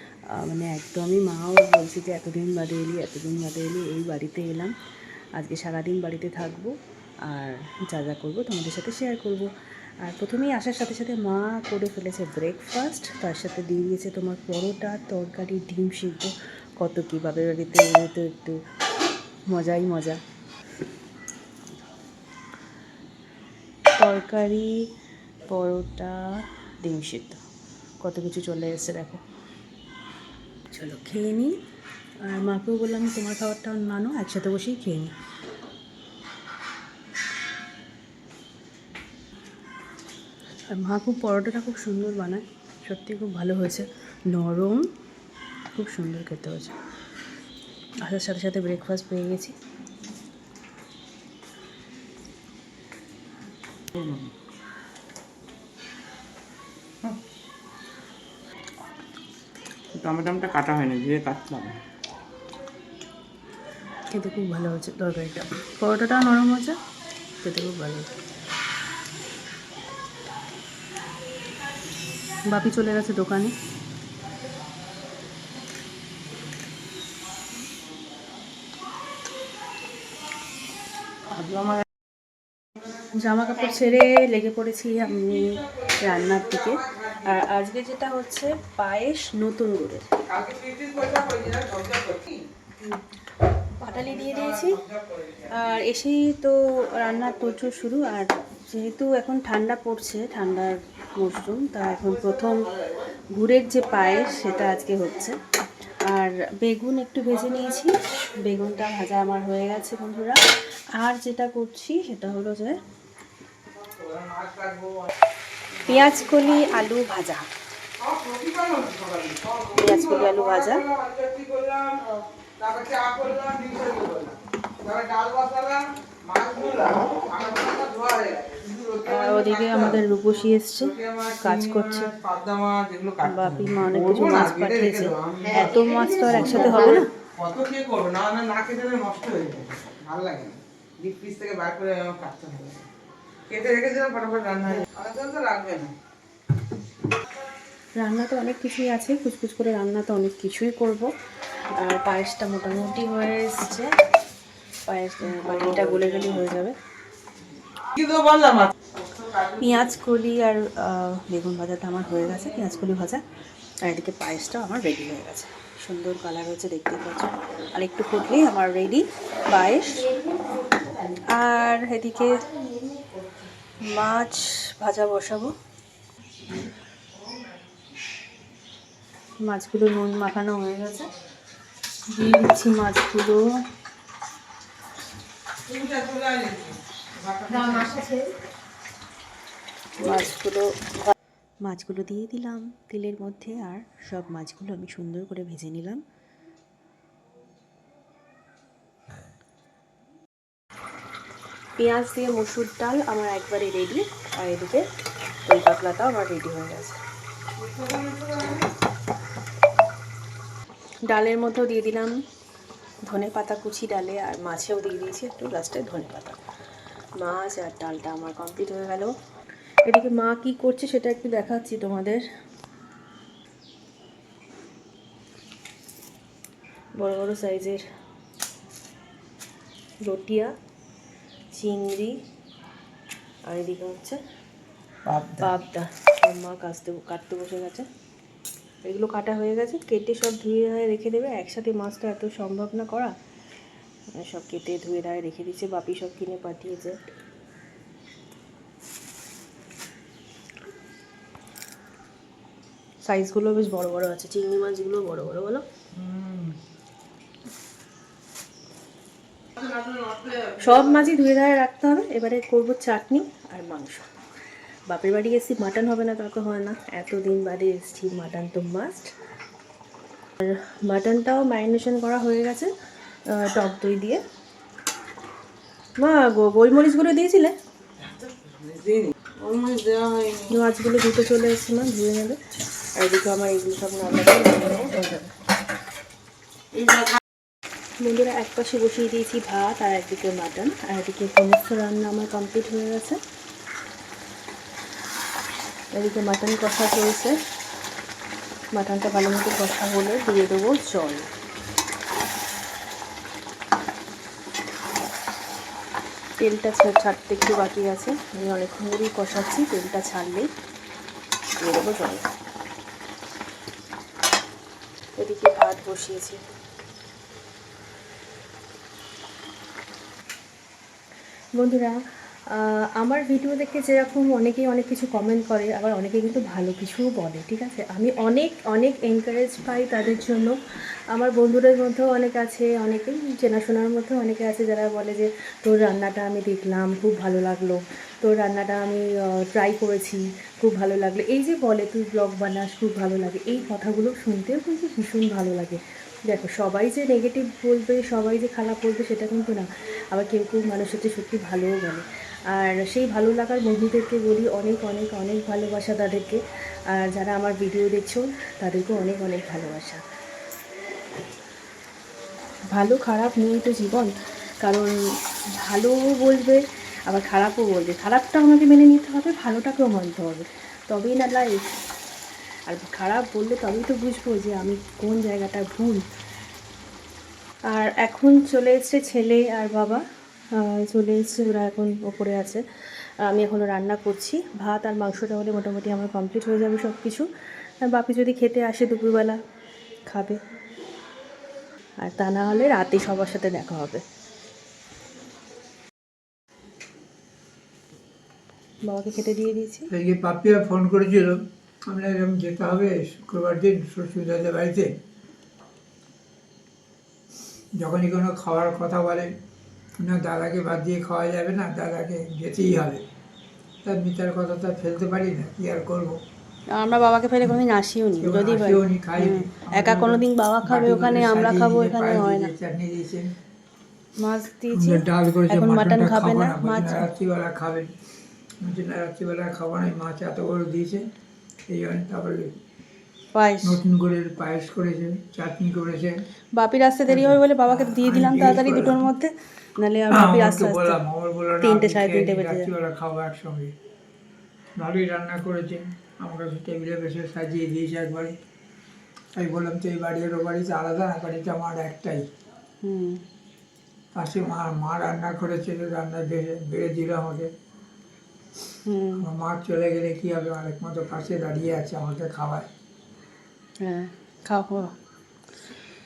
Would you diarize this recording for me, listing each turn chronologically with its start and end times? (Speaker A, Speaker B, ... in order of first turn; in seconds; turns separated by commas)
Speaker A: 0.3-4.7, Speaker A: 5.3-6.7, Speaker A: 7.2-9.5, Speaker A: 10.0-18.6, Speaker A: 19.5-20.2, Speaker A: 23.9-24.9, Speaker A: 25.5-27.4, Speaker A: 28.0-29.2, Speaker A: 30.7-31.6, Speaker A: 32.2-35.1, Speaker A: 40.7-44.9, Speaker A: 45.7-46.7, Speaker A: 48.0-49.5, Speaker B: 53.9-54.3, Speaker B: 59.9-61.8, Speaker A: 64.1-66.8, Speaker A: 67.4-68.1, Speaker A: 72.5-73.5, Speaker B: 81.3-81.8, Speaker A: 83.1-90.0, Speaker B: 85.1-87.3, Speaker B: 90.3-92.4, Speaker A: 93.8-94.8, Speaker B: 93.9-95.5, Speaker A: 95.5-102.7, Speaker A: 103.3-105.4, Speaker A: 106.0-112.8, Speaker B: 113.7-115.1, Speaker A: 115.8-117.5, Speaker B: 118.0-130.0, Speaker A: 119.7-120.8, Speaker A: 129.1-132.1, Speaker B: 130.8-136.7, Speaker A: 133.2-137.1, Speaker B: 137.3-142.8, Speaker B: 143.5-145.9, Speaker A: 147.9-151.1, Speaker A: 151.7-153.9, Speaker A: 154.8-156.8, Speaker B: 155.3-156.4, Speaker B: 157.9-159.9, Speaker A: 159.6-163.2, Speaker A: 163.8-170.1, Speaker A: 171.3-172.6, Speaker A: 173.8-175.5, Speaker A: 179.4-181.1, Speaker A: 182.1-183.5, Speaker B: 185.7-188.0, Speaker A: 190.0-196.0, Speaker A: 201.8-204.8, Speaker A: 205.4-207.0, Speaker B: 207.6-208.7, Speaker A: 211.1-212.2, Speaker A: 213.0-216.4, Speaker A: 217.2-219.1, Speaker A: 219.8-222.2, Speaker A: 227.0-227.8, Speaker A: 230.0-230.5, Speaker A: 231.5-232.2, Speaker A: 233.4-234.2, Speaker C: 235.1-235.4, Speaker A: 235.4-237.9, Speaker A: 238.8-243.1, Speaker A: 244.1-247.0, Speaker A: 253.0-255.6, Speaker B: 255.9-256.5, Speaker B: 259.6-260.9, Speaker A: 260.6-264.1, Speaker A: 264.9-269.1, Speaker A: 270.4-272.7, Speaker A: 273.3-274.2, Speaker A: 276.0-277.6, Speaker B: 278.2-280.5, Speaker A: 280.5-282.4, Speaker A: 282.9-285.3, Speaker A: 288.0-293.2, Speaker A: 295.9-297.4, Speaker A: 298.7-301.3, Speaker A: 306.4-310.5, Speaker A: 311.6-312.3, Speaker A: 315.1-316.4, Speaker A: 321.6-322.0, Speaker A: 322.5-330.6, Speaker A: 331.1-360.0, Speaker A: 362.7-364.9, Speaker A: 365.6-371.7, Speaker A: 372.7-376.0, Speaker A: 377.7-382.6, Speaker A: 383.2-387.3, Speaker A: 387.8-389.4, Speaker A: 390.1-390.4, Speaker A: 392.0-394.0, Speaker A: 398.8-399.9, Speaker C: 399.9-405.0, Speaker C: 407.8-409.3, Speaker C: 410.0-413.0, Speaker C: 413.8-416.2, Speaker A: 416.7-422.5, Speaker C: 418.2-423.3, Speaker A: 424.2-427.1, Speaker C: 424.7-427.9, Speaker C: 428.6-431.1, Speaker C: 431.7-432.6, Speaker A: 433.3-433.8, Speaker C: 433.6-436.2, Speaker A: 436.6-441.0, Speaker C: 437.1-439.1, Speaker C: 440.1-443.7, Speaker A: 441.6-442.7, Speaker C: 444.8-448.4, Speaker C: 449.3-452.3, Speaker A: 452.8-453.2, Speaker C: 454.1-457.5, Speaker A: 458.9-459.2, Speaker C: 459.2-462.7, Speaker A: 463.8-464.9